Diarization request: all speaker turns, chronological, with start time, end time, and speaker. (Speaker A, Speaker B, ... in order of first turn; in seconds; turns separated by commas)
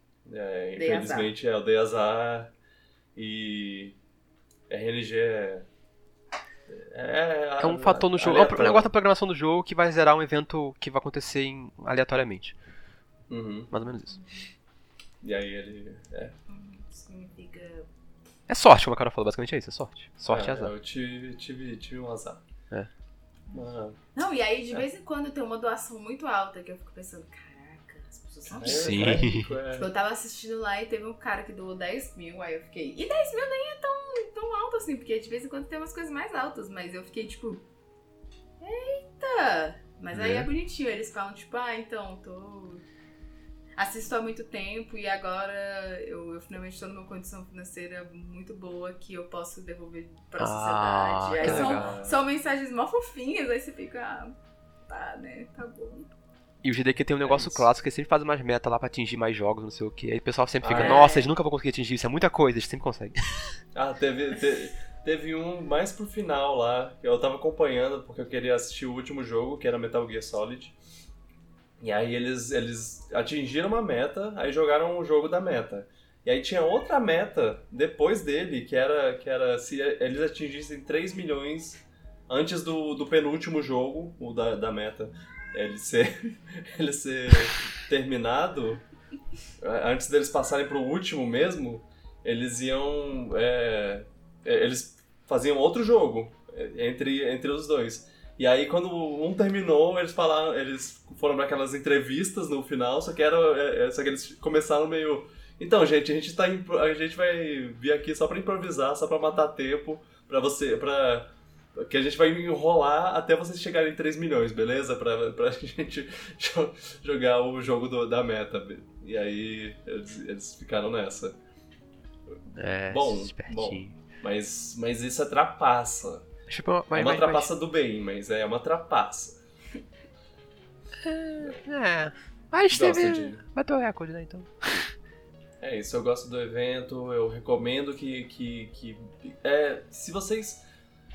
Speaker A: 0.3-2.5, Speaker B: 0.8-1.3, Speaker A: 3.1-4.0, Speaker A: 4.7-5.7, Speaker A: 6.7-8.9, Speaker C: 7.6-12.6, Speaker A: 13.3-13.7, Speaker C: 13.7-14.2, Speaker B: 14.1-14.5, Speaker A: 15.2-16.4, Speaker B: 16.5-17.9, Speaker C: 18.5-20.7, Speaker A: 20.3-22.4, Speaker A: 23.5-24.0, Speaker B: 24.1-37.6, Speaker A: 28.5-29.9, Speaker C: 28.6-29.5, Speaker B: 38.6-42.8, Speaker C: 40.1-40.5, Speaker B: 43.8-54.4, Speaker C: 50.4-51.9, Speaker A: 51.4-52.2, Speaker B: 54.9-56.1, Speaker C: 56.6-63.4, Speaker A: 57.2-57.7, Speaker A: 60.6-61.0, Speaker B: 60.7-61.3, Speaker A: 63.8-70.8, Speaker A: 71.8-88.8, Speaker A: 89.6-121.4, Speaker C: 122.5-124.0, Speaker A: 122.9-126.3, Speaker C: 126.5-127.5, Speaker A: 126.9-129.4, Speaker C: 131.0-134.9, Speaker A: 132.7-133.4, Speaker A: 135.6-140.6